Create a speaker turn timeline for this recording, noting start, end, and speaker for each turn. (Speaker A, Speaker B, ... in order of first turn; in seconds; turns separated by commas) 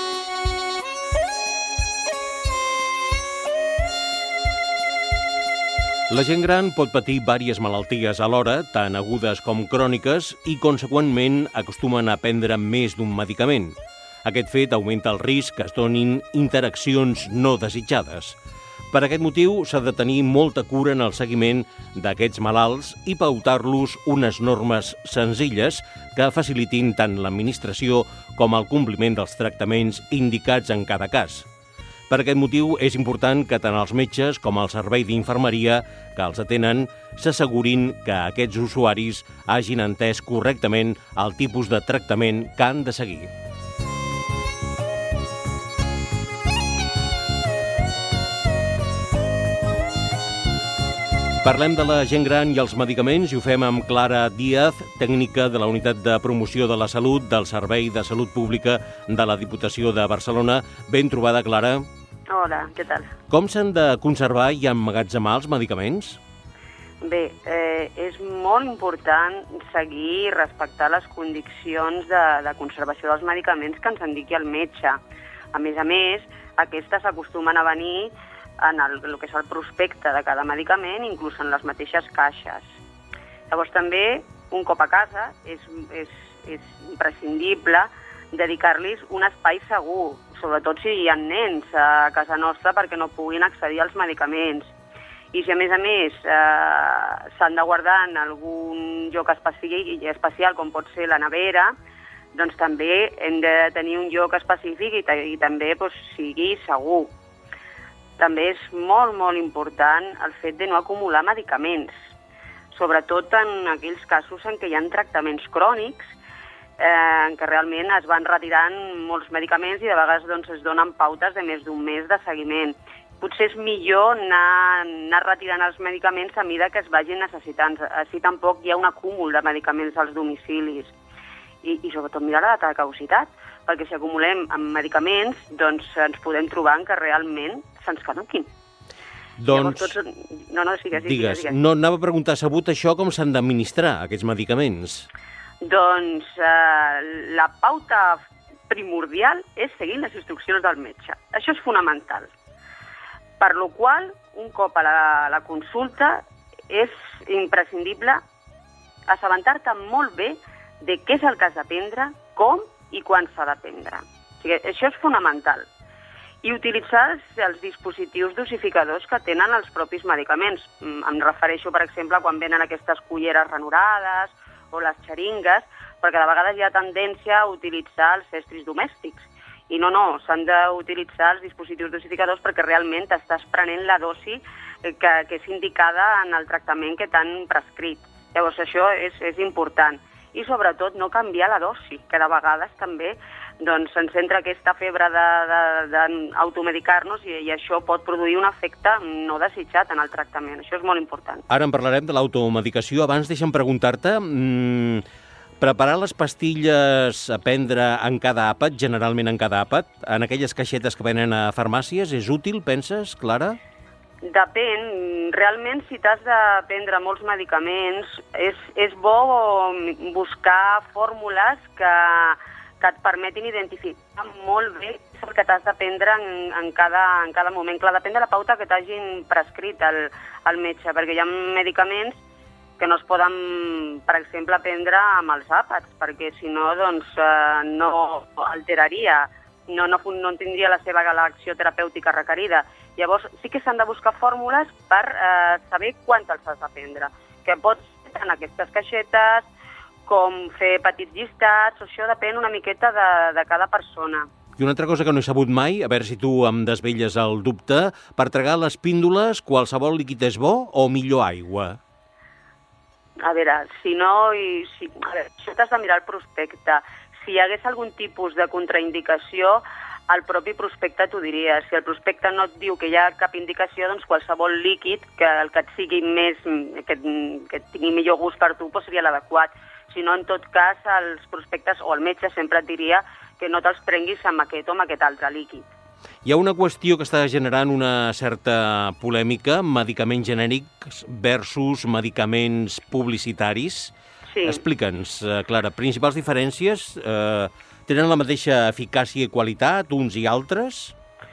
Speaker A: 6.1-18.4, Speaker A: 18.9-31.4, Speaker A: 32.1-43.3, Speaker A: 51.4-61.9, Speaker B: 62.3-63.1, Speaker A: 63.3-66.2, Speaker B: 67.0-75.0, Speaker B: 75.5-82.7, Speaker B: 83.5-94.7, Speaker B: 95.3-101.7, Speaker B: 102.3-107.1, Speaker B: 108.2-111.9, Speaker B: 112.7-116.1, Speaker B: 116.8-130.9, Speaker B: 131.6-138.5, Speaker A: 139.4-139.9, Speaker B: 139.5-141.5, Speaker A: 141.0-145.1, Speaker B: 145.6-152.3, Speaker B: 153.4-158.2, Speaker B: 159.1-165.7, Speaker B: 166.4-201.4, Speaker A: 201.5-205.0, Speaker A: 205.6-213.6, Speaker B: 214.3-232.2, Speaker B: 232.8-249.5, Speaker B: 250.1-254.3, Speaker A: 254.6-261.8, Speaker B: 263.2-285.6, Speaker A: 286.2-293.9, Speaker B: 294.3-294.6, Speaker A: 294.4-300.9